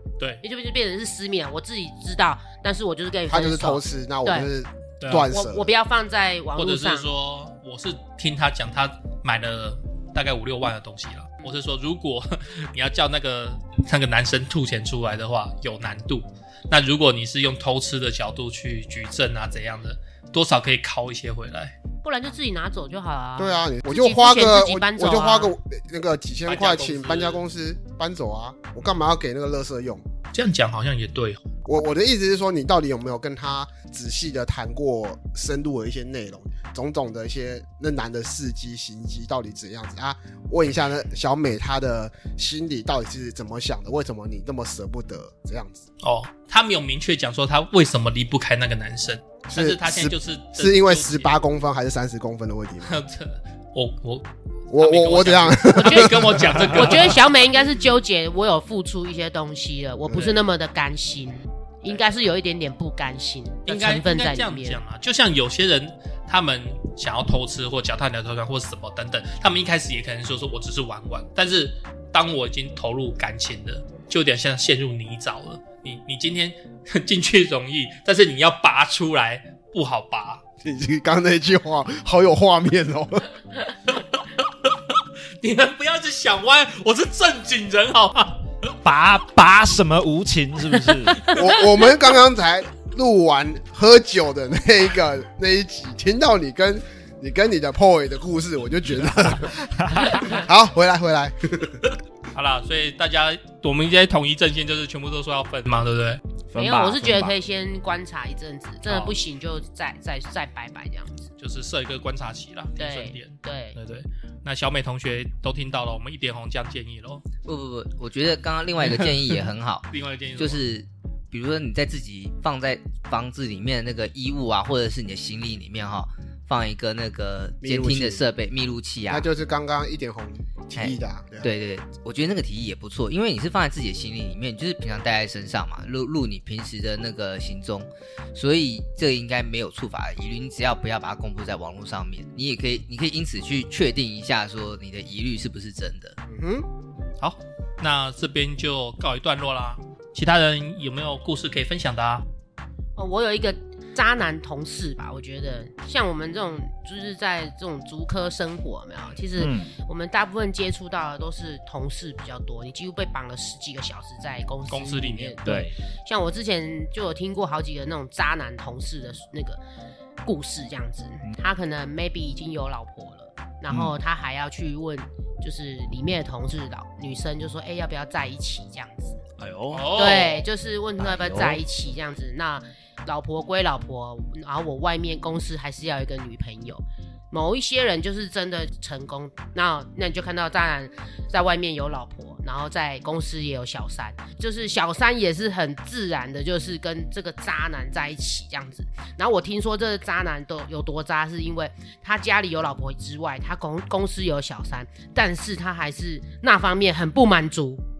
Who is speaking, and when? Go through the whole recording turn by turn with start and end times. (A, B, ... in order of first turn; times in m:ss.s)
0:00.4-0:04.5 A
0:03.3-0:05.7 B
0:05.0-0:05.3 C
0:05.3-0:07.1 A
0:06.6-0:21.7 C
0:22.0-0:25.5 A
0:23.4-0:30.0 B
0:26.5-0:27.4 C
0:30.3-0:31.4 C
0:31.6-0:45.8 B
0:46.0-0:51.4 C
0:49.5-0:53.0 B
0:52.8-0:57.3 C
0:54.7-0:56.7 B
0:55.7-1:04.8 A
1:03.7-1:20.4 C
1:20.6-1:23.3 B
1:23.9-1:24.2 C
1:25.4-1:28.4 C
1:28.8-1:31.3 D
1:31.3-1:41.8 B
1:42.3-1:46.2 C
1:46.5-1:47.3 D
1:46.6-1:51.3 A
1:48.8-1:49.1 C
1:51.4-1:57.2 C
1:52.8-1:53.8 A
1:57.4-2:09.2 E
1:59.9-2:00.6 C
2:07.6-2:08.2 B
2:09.1-2:11.5 B
2:10.8-2:26.2 E
2:26.3-2:26.7 B
2:27.2-2:32.2 C
2:33.0-2:49.6 A
2:39.4-2:39.7 D
2:44.7-2:45.5 C
2:45.4-2:45.7 D
2:50.2-2:59.2 A
2:53.7-2:54.0 D
2:59.4-3:00.0 D
2:59.7-3:00.4 C
2:59.9-3:27.8 A
3:01.0-3:01.6 D